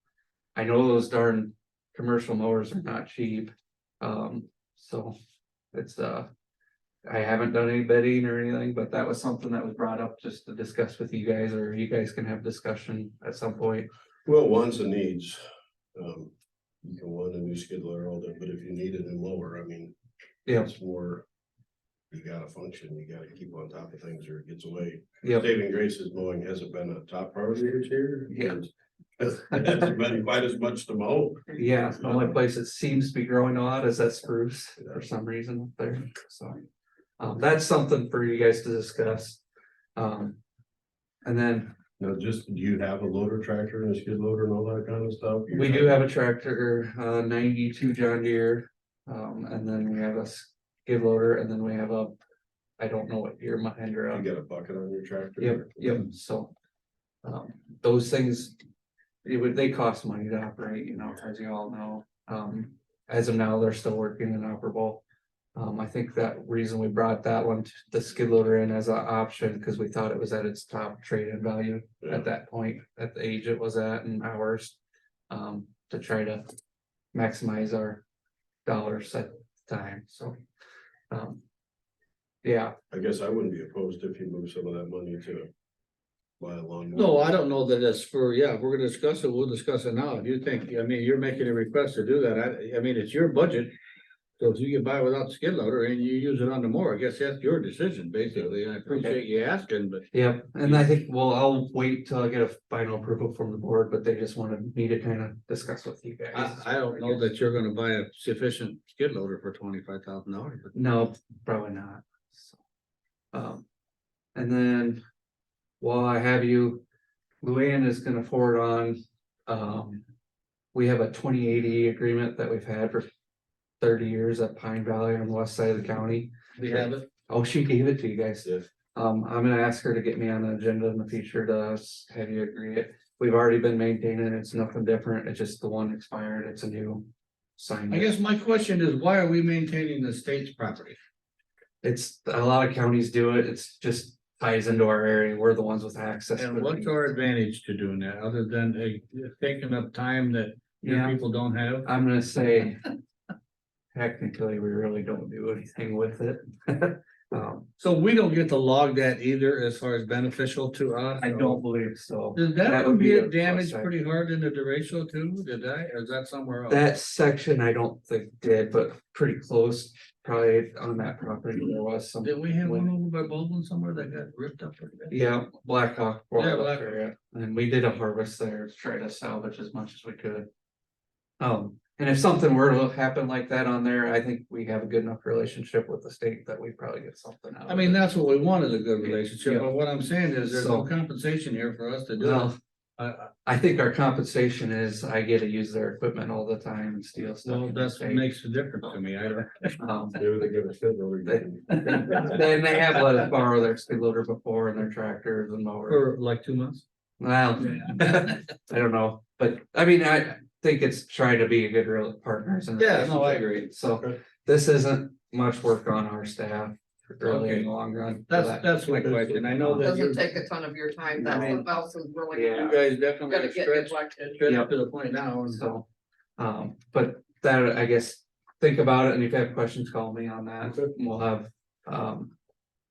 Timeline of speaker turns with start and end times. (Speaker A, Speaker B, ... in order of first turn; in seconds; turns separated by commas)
Speaker A: 0.6-5.2, Speaker A: 5.7-6.3, Speaker A: 7.0-13.9, Speaker B: 14.3-15.4, Speaker B: 15.9-16.3, Speaker B: 16.8-19.9, Speaker B: 20.5-21.2, Speaker B: 22.1-32.3, Speaker A: 28.3-28.6, Speaker A: 31.6-36.6, Speaker A: 37.2-39.4, Speaker A: 40.0-40.4, Speaker A: 41.2-41.7, Speaker B: 42.0-46.0, Speaker A: 45.5-52.1, Speaker A: 52.8-54.3, Speaker B: 54.1-56.0, Speaker A: 55.4-56.5, Speaker A: 57.2-58.5, Speaker A: 59.2-65.0, Speaker A: 65.5-74.8, Speaker B: 72.0-72.3, Speaker A: 75.3-76.5, Speaker A: 77.1-78.0, Speaker A: 78.7-80.4, Speaker A: 81.1-81.4, Speaker A: 82.4-82.7, Speaker B: 82.9-85.5, Speaker B: 86.4-87.2, Speaker C: 86.9-93.7, Speaker C: 94.4-100.1, Speaker A: 98.9-99.2, Speaker A: 100.1-107.3, Speaker C: 106.3-110.7, Speaker A: 110.7-112.6, Speaker A: 113.3-113.6, Speaker A: 114.3-115.0, Speaker A: 115.8-116.8, Speaker A: 117.4-120.0, Speaker A: 120.7-123.1, Speaker A: 123.8-137.1, Speaker C: 126.6-127.0, Speaker B: 128.4-128.7, Speaker A: 137.6-138.1, Speaker C: 137.9-141.0, Speaker A: 141.8-147.1, Speaker C: 146.3-151.9, Speaker A: 150.8-151.2, Speaker A: 151.8-152.8, Speaker A: 153.9-157.7, Speaker C: 157.8-161.6, Speaker A: 161.2-163.9, Speaker C: 162.3-166.8, Speaker A: 166.7-172.9, Speaker C: 172.2-175.2, Speaker A: 175.1-180.5, Speaker C: 176.3-177.0, Speaker A: 181.4-188.1, Speaker C: 187.7-193.3, Speaker A: 189.1-189.7, Speaker A: 190.4-190.9, Speaker A: 192.2-192.5, Speaker A: 193.4-198.2, Speaker C: 197.4-199.8, Speaker A: 199.8-200.2, Speaker B: 200.1-202.4, Speaker A: 201.2-206.1, Speaker C: 201.9-202.2, Speaker C: 205.9-206.8, Speaker A: 207.2-219.9, Speaker C: 207.6-208.4, Speaker C: 212.8-213.5, Speaker C: 217.2-217.7, Speaker C: 218.3-220.3, Speaker D: 219.8-224.3, Speaker C: 221.2-221.6, Speaker A: 221.2-221.6, Speaker A: 222.3-222.8, Speaker C: 222.5-225.6, Speaker A: 224.4-224.7, Speaker A: 225.4-225.8, Speaker A: 226.4-232.3